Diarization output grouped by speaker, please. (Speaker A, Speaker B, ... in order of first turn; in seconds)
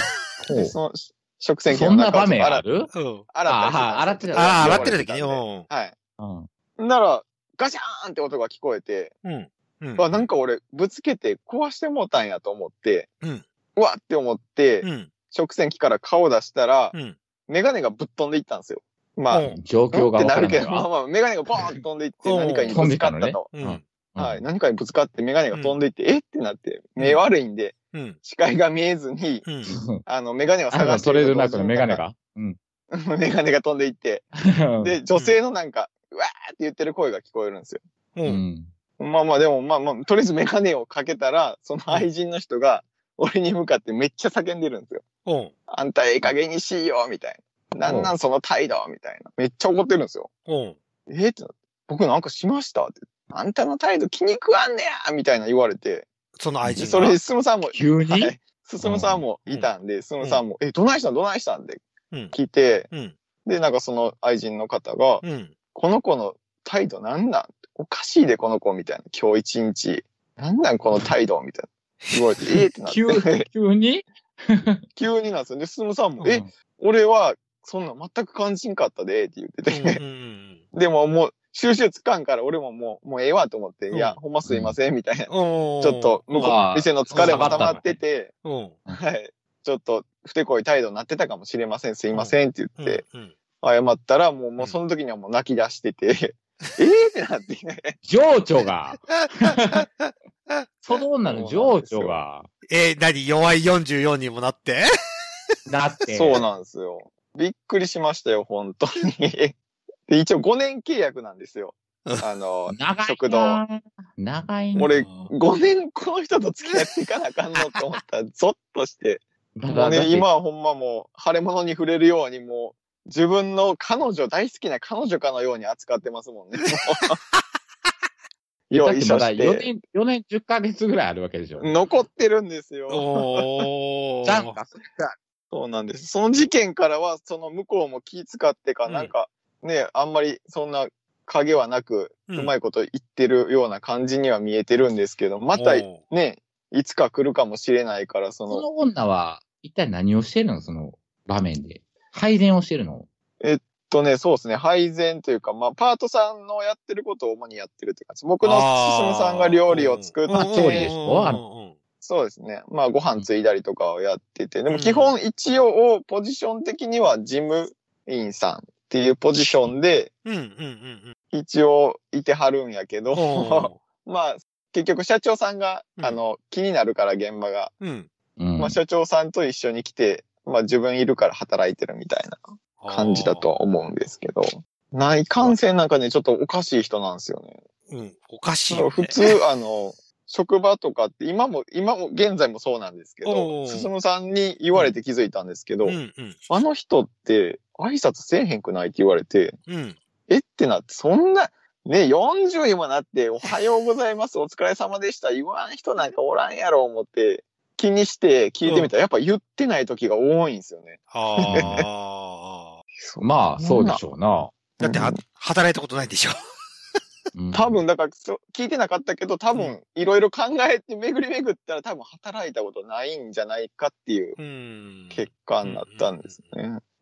Speaker A: 0.4-0.8, 1.7-2.9, 3.5-5.0, 6.2-6.5, 19.6-20.9, 22.7-24.4, 29.7-30.0, 30.7-32.6, 34.4-35.0, 38.3-38.7, 47.8-48.1, 57.7-59.2, 72.9-74.8, 84.5-84.8, 86.4-88.0, 98.0-99.8, 100.8-102.5, 105.7-106.4, 112.7-115.1, 119.6-120.3, 128.8-131.8, 134.3-135.2, 148.5-153.1, 160.3-161.4, 178.4-178.8, 211.5-211.8, 213.2-214.6, 217.3-217.8
Speaker B: 0.5-2.6, 3.3-5.9, 6.8-9.1, 10.0-13.1, 13.8-16.9, 17.5-23.5, 24.2-29.5, 30.1-32.0, 32.9-34.3, 34.8-37.8, 39.0-45.0, 45.7-50.3, 51.1-56.1, 56.7-61.8, 62.3-62.9, 63.5-65.2, 65.7-73.5, 75.0-80.0, 80.7-88.3, 88.9-93.0, 93.6-98.0, 101.2-102.2, 106.1-109.6, 110.1-113.6, 114.8-127.2, 128.7-129.7, 131.6-133.7, 135.5-148.7, 153.4-160.9, 162.0-170.1, 171.3-177.7, 178.6-187.6, 188.7-199.6, 200.3-211.8, 213.0-214.0, 214.8-215.2, 217.5-224.4, 225.1-226.8
Speaker C: 2.9-3.3, 4.4-5.7, 9.2-10.3, 14.8-15.1, 19.3-19.6, 22.2-22.8, 23.5-23.8, 25.5-25.8, 29.5-29.7, 38.2-38.4, 45.2-45.5, 50.5-50.8, 56.4-57.2, 59.5-60.4, 65.2-65.5, 72.0-72.5, 79.7-80.6, 83.9-84.2, 85.3-86.6, 87.1-87.8, 88.4-88.8, 92.1-93.3, 99.2-100.6, 102.7-104.9, 126.7-127.4, 132.9-134.6, 138.9-139.1, 145.5-146.0, 158.4-161.8, 164.7-165.1, 170.2-171.1, 173.1-173.8, 177.8-178.1, 182.8-183.5, 187.9-189.3, 193.2-193.9, 195.8-196.4, 199.7-200.0, 208.7-208.9, 211.1-212.8, 214.8-216.4, 224.4-226.6